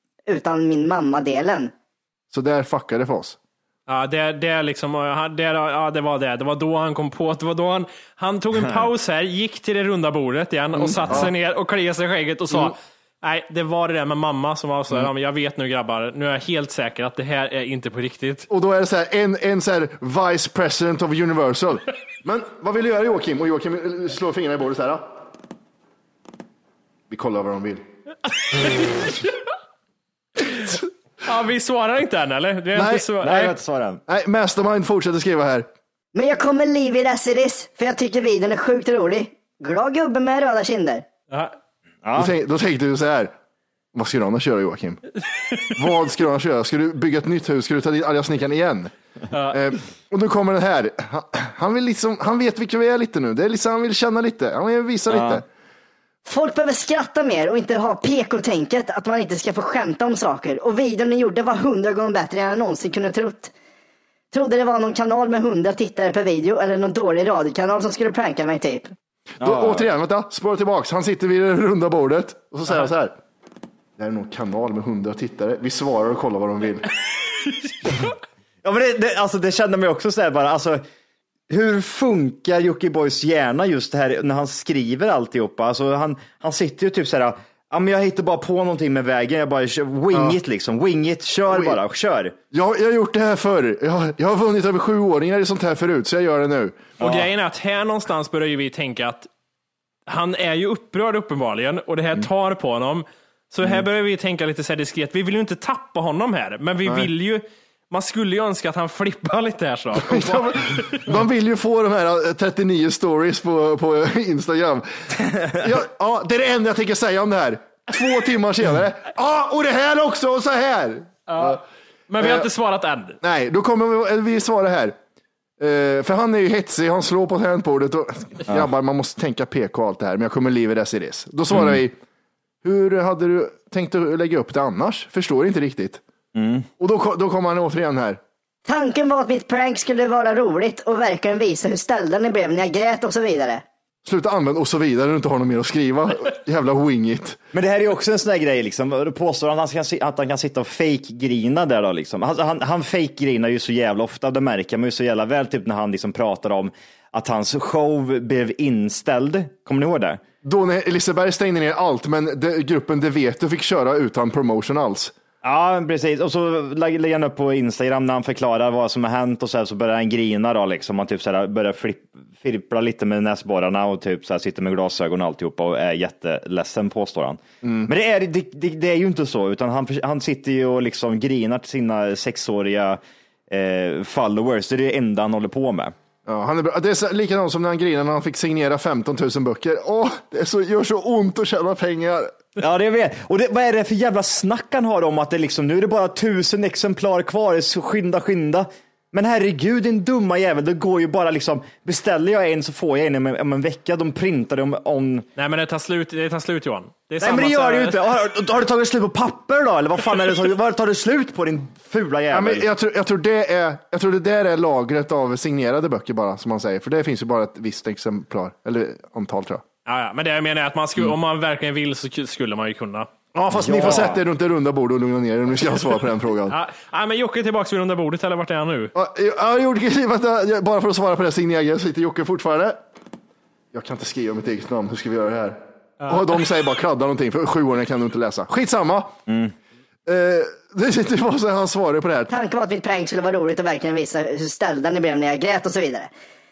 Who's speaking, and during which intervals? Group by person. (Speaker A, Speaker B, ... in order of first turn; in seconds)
Speaker A: 0.3-1.7, 36.1-41.0, 56.2-63.5, 64.3-68.9, 138.7-143.6, 242.3-246.1
Speaker B: 2.3-3.4, 10.8-11.3, 18.5-25.1, 27.1-27.8, 32.7-33.1, 34.1-35.7, 42.1-43.3, 43.9-45.0, 45.7-48.9, 49.5-55.5, 69.4-73.2, 74.0-76.9, 90.1-90.4, 91.5-91.8, 92.5-96.9, 110.0-121.6, 122.2-122.5, 123.2-125.0, 125.6-132.0, 132.6-136.0, 136.8-138.2, 144.0-147.4, 160.4-165.1, 177.6-177.9, 186.3-192.3, 212.3-219.6, 223.3-226.6, 228.9-232.8, 233.7-239.2, 240.1-242.3
Speaker C: 3.9-18.5, 28.5-29.2, 30.5-33.5, 41.3-41.5, 49.3-49.6, 97.0-99.3, 100.1-111.1, 121.3-123.2, 205.4-208.0, 219.9-223.1, 226.5-228.9, 236.0-236.3
Speaker D: 33.2-34.0, 42.0-42.3, 55.1-55.4, 69.4-69.9, 78.6-80.8, 81.5-92.3, 131.5-131.8, 136.3-136.7, 147.5-160.2, 165.4-183.0, 183.5-185.9, 192.6-205.3, 207.2-212.7, 223.5-224.2, 239.3-239.5